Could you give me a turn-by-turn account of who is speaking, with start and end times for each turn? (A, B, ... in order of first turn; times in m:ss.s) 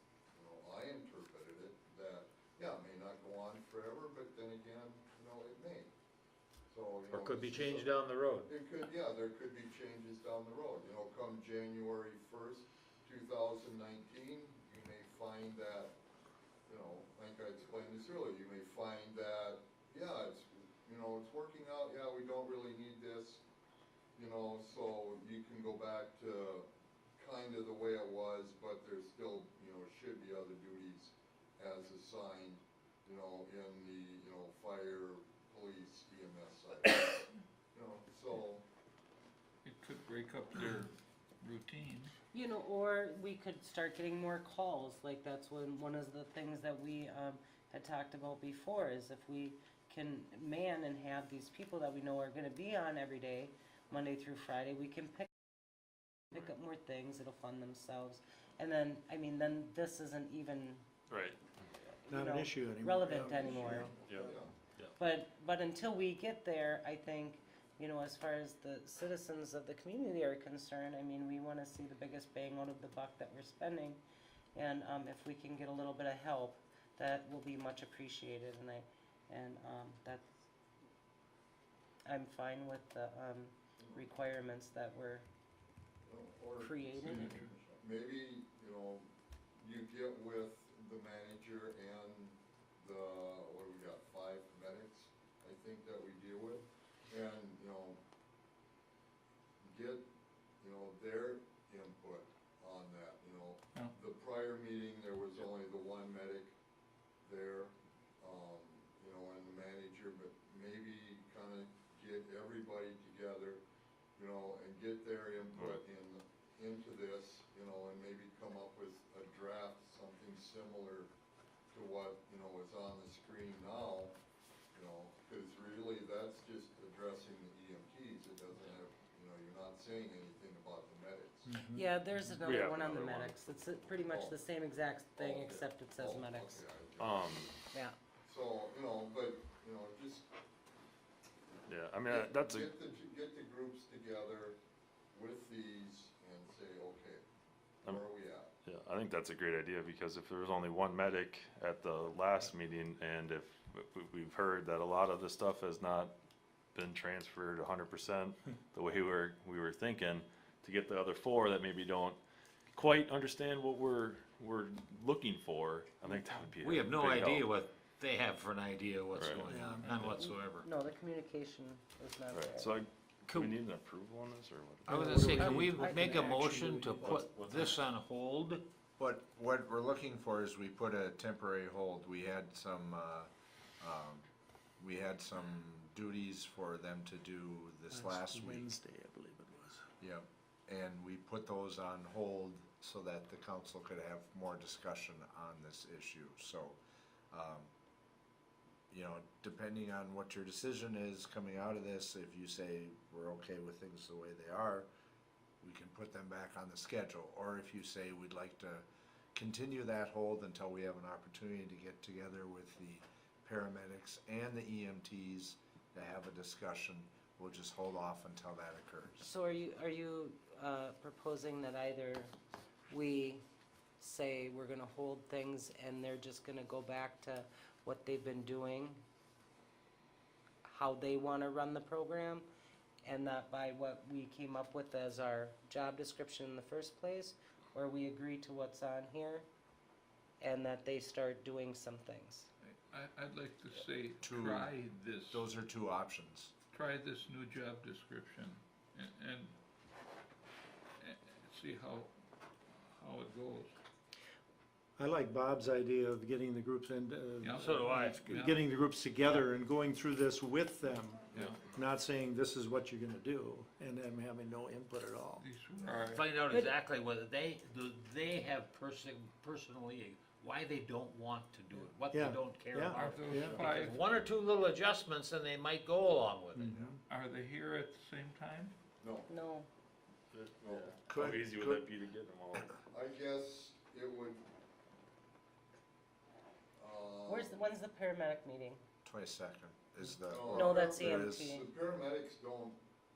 0:00.3-0:05.9 A
0:06.7-0:07.9 A
0:07.1-0:08.5 B
0:08.4-0:15.9 A
0:16.7-0:23.4 A
0:24.2-0:38.6 A
0:39.6-0:42.1 C
0:42.3-0:55.3 D
0:56.3-1:00.8 D
1:01.1-1:01.4 E
1:02.1-1:03.9 D
1:02.1-1:03.9 F
1:04.0-1:04.5 A
1:04.0-1:04.9 E
1:05.0-1:14.0 D
1:14.5-1:20.3 D
1:22.1-1:25.2 D
1:23.8-1:24.0 A
1:26.0-1:29.0 A
1:26.6-1:27.4 D
1:29.6-1:38.0 A
1:39.6-1:40.0 A
1:40.6-1:46.5 A
1:47.2-1:53.6 A
1:54.1-2:01.1 A
2:01.7-2:04.2 A
2:04.7-2:11.5 A
2:11.5-2:12.3 F
2:11.7-2:16.6 D
2:12.4-2:13.4 E
2:14.0-2:14.4 A
2:15.2-2:17.6 A
2:17.0-2:17.5 E
2:18.2-2:20.3 A
2:21.7-2:22.7 E
2:22.0-2:24.6 A
2:25.1-2:27.2 A
2:27.8-2:28.5 A
2:28.6-2:36.1 E
2:36.7-2:42.2 E
2:42.7-2:47.5 E
2:46.6-2:50.6 B
2:49.1-2:49.5 E
2:49.4-2:49.9 F
2:50.0-2:52.8 D
2:52.3-2:55.4 E
2:53.3-2:53.5 B
2:54.9-2:57.1 F
2:55.0-2:58.6 B
2:55.2-2:56.2 D
2:57.0-2:57.8 E
2:59.0-3:03.3 G
3:03.8-3:04.2 G
3:04.8-3:08.7 G
3:07.9-3:09.9 F
3:10.0-3:16.8 G
3:17.3-3:17.7 G
3:18.9-3:24.9 G
3:25.6-3:39.3 G
3:39.2-3:42.3 D
3:42.9-3:43.4 D
3:44.0-3:49.0 D
3:50.6-3:52.4 D
3:53.0-3:59.4 D
4:00.4-4:02.5 D
4:02.6-4:05.5 C
4:04.2-4:04.7 G
4:05.3-4:06.5 G
4:06.7-4:09.5 C
4:11.0-4:12.1 C
4:12.9-4:13.7 C
4:15.0-4:25.4 F
4:17.4-4:18.6 C
4:17.6-4:18.2 B
4:21.3-4:21.6 C
4:25.4-4:26.3 C
4:26.1-4:36.8 B
4:26.4-4:26.8 D
4:32.1-4:33.7 F
4:32.9-4:34.0 C
4:36.5-4:37.0 F
4:37.1-4:38.8 C
4:39.0-4:39.3 A
4:39.3-4:39.7 D
4:40.3-4:42.8 E
4:40.6-4:40.9 A
4:41.1-4:41.8 G
4:42.9-4:44.4 A
4:46.8-4:47.6 A
4:47.3-4:48.8 D
4:49.0-4:51.5 G
4:50.3-4:52.8 A
4:50.5-4:51.6 D